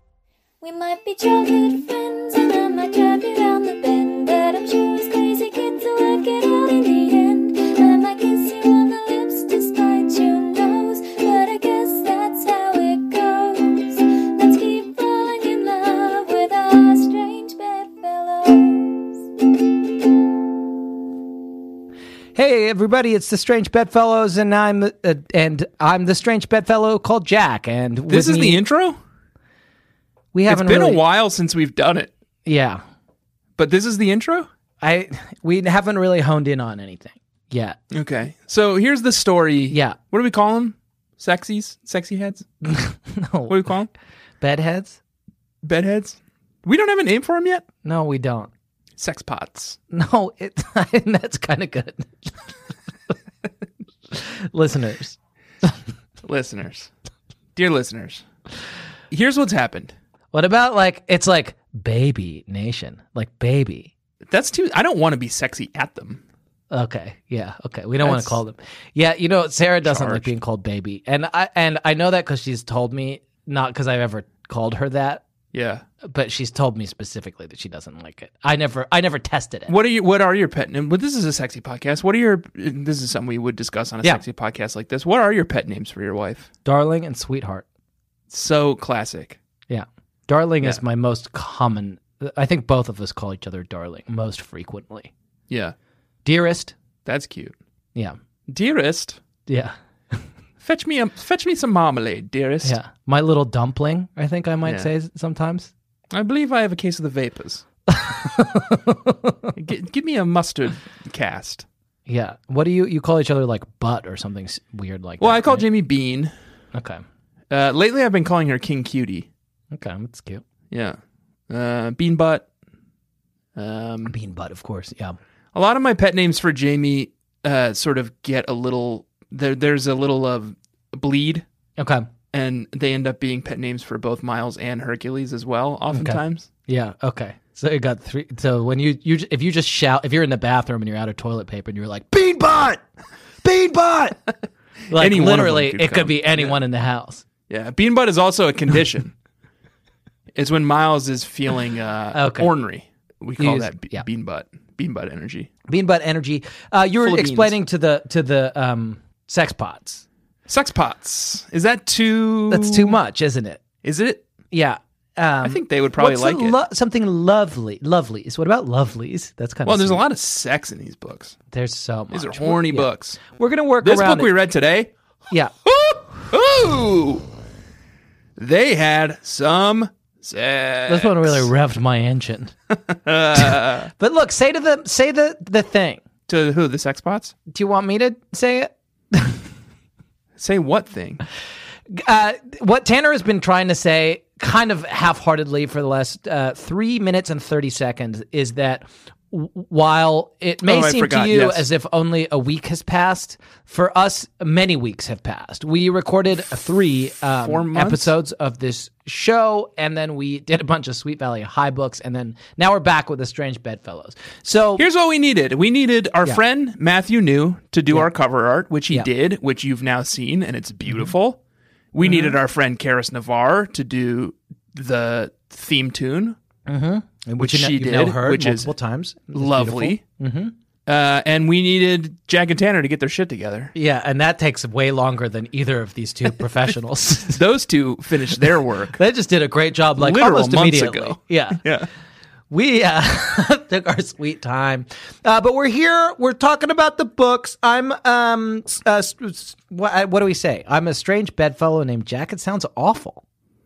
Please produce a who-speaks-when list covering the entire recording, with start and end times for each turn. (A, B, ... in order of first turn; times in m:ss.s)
0:00.6-0:19.1 A
0:22.4-0:28.6 B
0:28.1-0:29.0 C
0:30.3-0:31.0 B
0:30.5-0:32.1 C
0:32.4-0:32.8 B
0:33.6-0:34.5 C
0:34.8-0:37.8 B
0:37.9-0:42.5 C
0:39.7-0:40.0 B
0:42.6-0:43.6 B
0:43.5-0:43.9 C
0:44.4-0:45.0 B
0:45.6-0:47.7 C
0:47.8-0:48.5 B
0:49.0-0:49.8 C
0:49.9-0:52.4 B
0:54.1-0:55.8 B
0:56.2-0:56.9 C
0:57.6-0:58.2 C
0:59.1-0:59.9 C
1:00.3-1:03.9 B
1:04.3-1:06.2 C
1:06.7-1:15.2 B
1:08.0-1:08.4 C
1:09.8-1:10.3 C
1:15.5-1:15.8 C
1:16.0-1:19.7 B
1:19.7-1:26.5 C
1:26.6-1:27.6 B
1:28.3-1:29.4 C
1:29.7-1:35.1 B
1:35.5-1:35.8 C
1:36.2-1:36.7 B
1:37.0-1:37.6 C
1:38.5-1:39.2 C
1:39.5-1:40.2 B
1:40.6-1:42.8 C
1:42.6-1:45.7 B
1:46.1-1:47.6 C
1:47.9-1:49.5 B
1:49.6-1:51.7 C
1:52.1-1:55.6 B
1:55.2-1:56.3 C
1:56.7-1:57.0 B
1:57.5-1:59.3 C
1:59.7-2:00.4 B
2:00.7-2:01.0 C
2:01.5-2:02.5 C
2:03.6-2:04.2 C
2:04.1-2:05.2 B
2:05.5-2:11.4 C
2:11.8-2:12.1 B
2:12.3-2:16.5 C
2:15.9-2:22.8 B
2:23.4-2:24.2 B
2:24.9-2:26.6 C
2:24.9-2:27.2 B
2:27.5-2:29.1 C
2:30.3-2:35.5 C
2:32.1-2:32.5 B
2:33.4-2:34.0 B
2:35.7-2:40.0 B
2:37.0-2:37.6 C
2:40.5-2:43.0 C
2:42.5-2:43.6 B
2:43.8-2:44.2 C
2:44.5-2:50.0 B
2:45.4-2:46.6 C
2:49.6-2:51.4 C
2:51.5-2:54.3 B
2:52.1-2:53.2 C
2:53.8-2:54.9 C
2:55.7-2:57.3 C
2:58.4-3:01.5 C
3:00.9-3:02.5 B
3:02.7-3:03.9 C
3:04.0-3:06.0 B
3:06.3-3:07.4 C
3:07.5-3:09.4 B
3:10.4-3:11.2 C
3:11.9-3:34.8 B
3:20.6-3:21.7 C
3:27.4-3:28.1 C
3:34.8-3:41.4 C
3:41.9-3:46.4 C
3:42.0-3:42.4 B
3:46.7-3:50.5 B
3:47.4-3:48.7 C
3:49.3-3:50.0 C
3:50.9-3:53.7 C
3:53.8-3:57.4 B
3:57.3-3:59.0 C
3:59.0-4:01.6 B
4:00.0-4:01.9 C
4:02.5-4:13.2 B